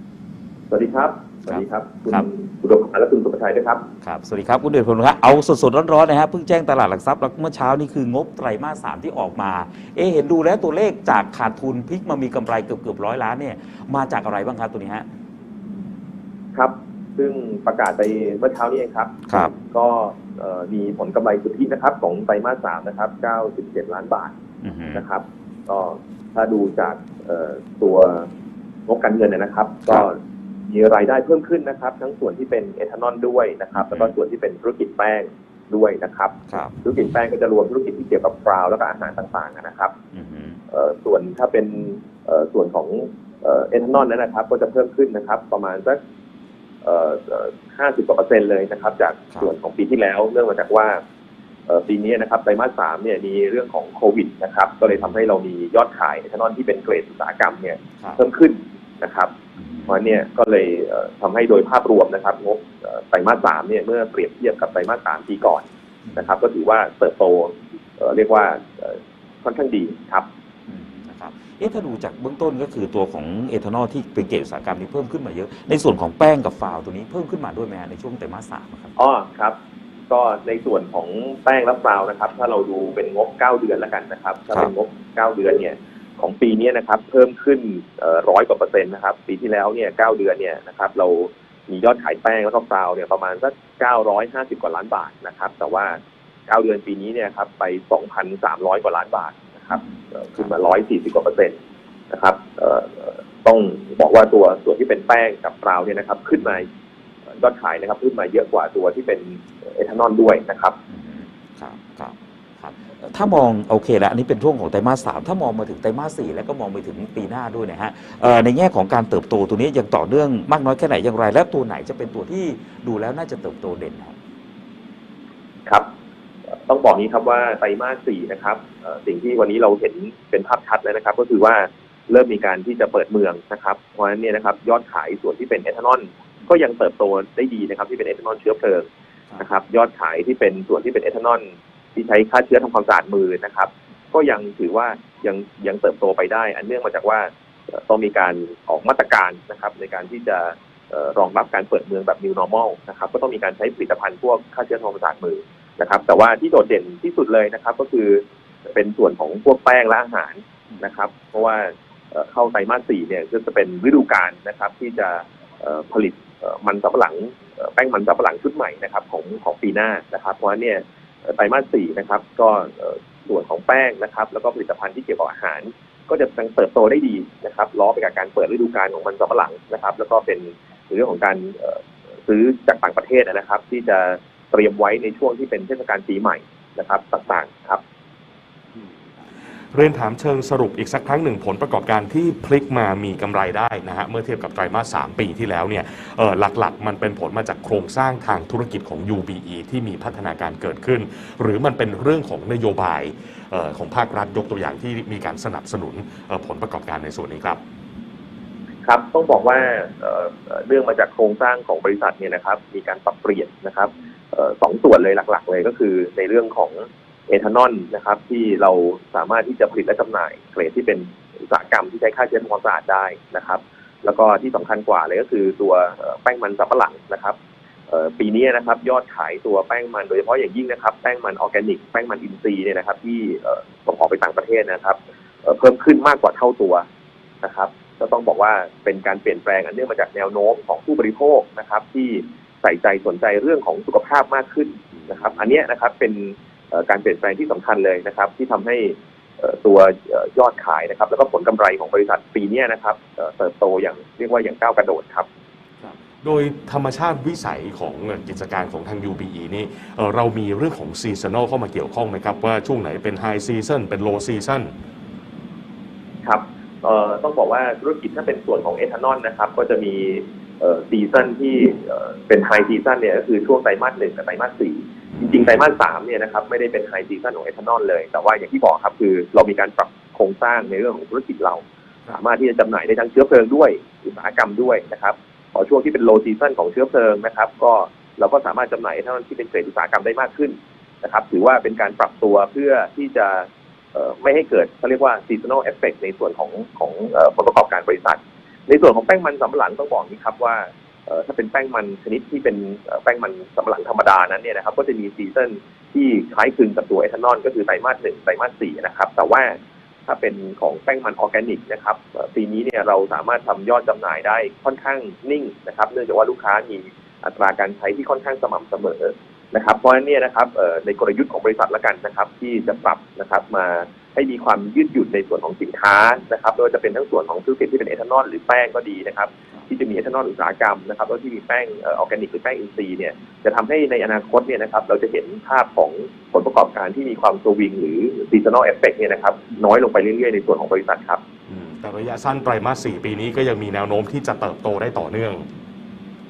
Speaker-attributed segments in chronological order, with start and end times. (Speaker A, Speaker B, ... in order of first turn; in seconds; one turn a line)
Speaker A: 0.7-3.9
Speaker B: 1.5-2.3
Speaker B: 4.0-15.1
Speaker A: 16.6-24.3
Speaker B: 19.3-19.5
Speaker B: 24.6-25.0
Speaker A: 24.9-28.3
Speaker A: 28.9-30.2
Speaker A: 30.7-39.9
Speaker B: 33.8-34.1
Speaker B: 36.5-36.7
Speaker B: 40.1-40.6
Speaker A: 40.7-46.0
Speaker A: 46.8-51.0
Speaker A: 51.7-59.3
Speaker B: 59.6-60.0
Speaker A: 59.9-70.3
Speaker B: 70.7-78.9
Speaker A: 79.0-79.6
Speaker A: 80.1-101.6
Speaker A: 102.1-106.7
Speaker A: 107.4-110.8
Speaker B: 110.9-124.2
Speaker A: 126.7-138.9
Speaker A: 139.4-187.8
Speaker C: 189.7-207.6
Speaker A: 208.8-227.4
Speaker A: 227.9-236.9
Speaker A: 237.4-255.3
Speaker C: 256.2-264.7
Speaker A: 266.2-341.2
Speaker C: 341.5-345.5